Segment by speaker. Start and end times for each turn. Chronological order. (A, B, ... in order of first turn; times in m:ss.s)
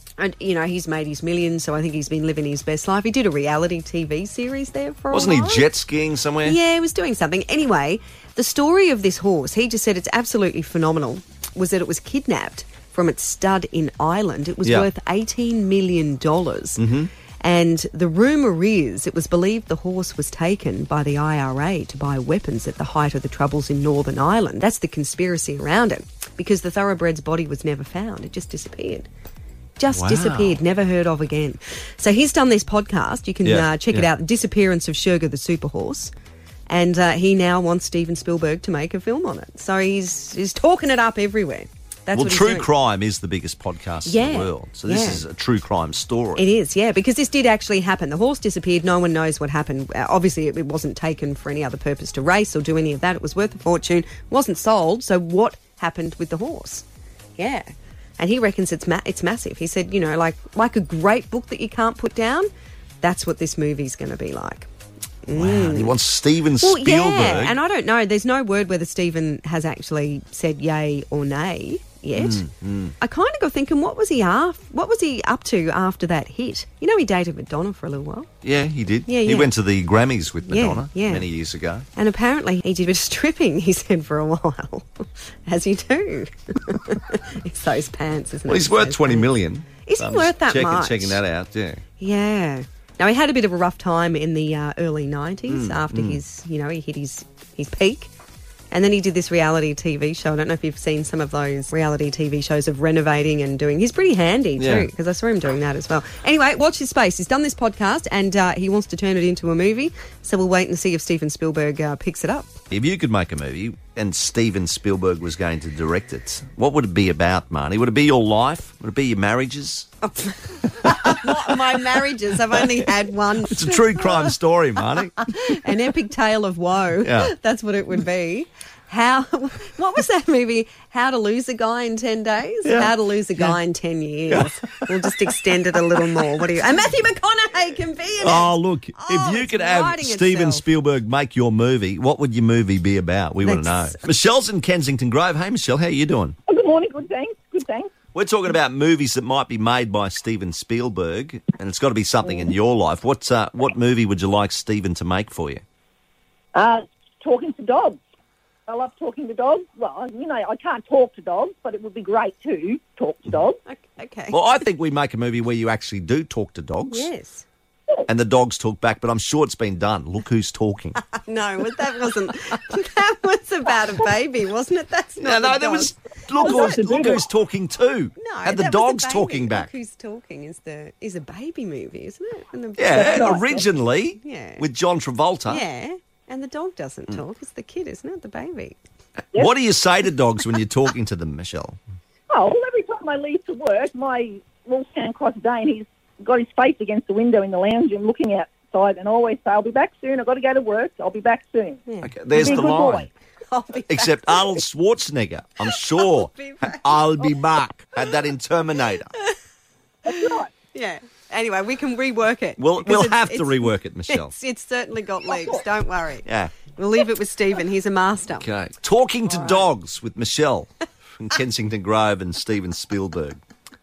0:00.2-0:05.7 A
0:05.1-0:06.6 B
0:06.4-0:16.8 A
0:16.8-0:17.1 B
0:17.4-0:29.1 A
0:29.8-0:36.1 A
0:29.9-0:30.6 B
0:33.4-0:34.1 B
0:36.7-0:42.7 A
0:42.1-0:46.4 B
0:44.0-0:45.2 A
0:46.4-0:56.8 A
0:57.4-0:57.6 A
0:58.2-1:02.5 A
1:03.0-1:04.7 A
1:05.2-1:06.0 A
1:05.3-1:07.6 B
1:06.6-1:12.5 A
1:12.1-1:12.9 B
1:13.0-1:18.3 A
1:18.4-1:21.8 B
1:19.1-1:19.5 A
1:20.5-1:21.3 A
1:21.9-1:29.3 A
1:28.5-1:31.8 B
1:29.8-1:31.2 A
1:32.0-1:38.1 A
1:35.5-1:36.2 B
1:38.7-1:52.6 A
1:44.6-1:44.9 B
1:52.7-1:59.9 B
2:00.0-2:04.4 A
2:03.4-2:05.2 B
2:05.0-2:20.6 A
2:07.0-2:07.3 B
2:12.6-2:13.6 B
2:14.3-2:14.9 B
2:18.2-2:26.4 B
2:23.4-2:24.0 A
2:26.5-2:27.9 C
2:28.1-2:35.6 B
2:36.5-2:38.0 C
2:38.7-2:43.6 C
2:43.6-2:44.5 A
2:44.3-2:47.1 B
2:46.9-2:47.4 A
2:48.1-2:51.0 B
2:51.1-2:56.9 A
2:55.2-2:59.7 B
2:56.4-2:57.2 C
2:58.2-3:03.7 A
3:02.8-3:05.6 B
3:02.9-3:03.5 C
3:04.2-3:04.6 A
3:05.5-3:08.8 A
3:09.3-3:11.8 B
3:12.3-3:23.1 C
3:21.9-3:22.8 A
3:22.0-3:23.1 B
3:23.5-3:24.5 A
3:23.9-3:29.1 B
3:25.7-3:27.0 A
3:30.0-3:30.5 C
3:30.2-3:38.5 A
3:32.6-3:34.3 B
3:36.2-3:36.5 B
3:38.4-3:43.4 B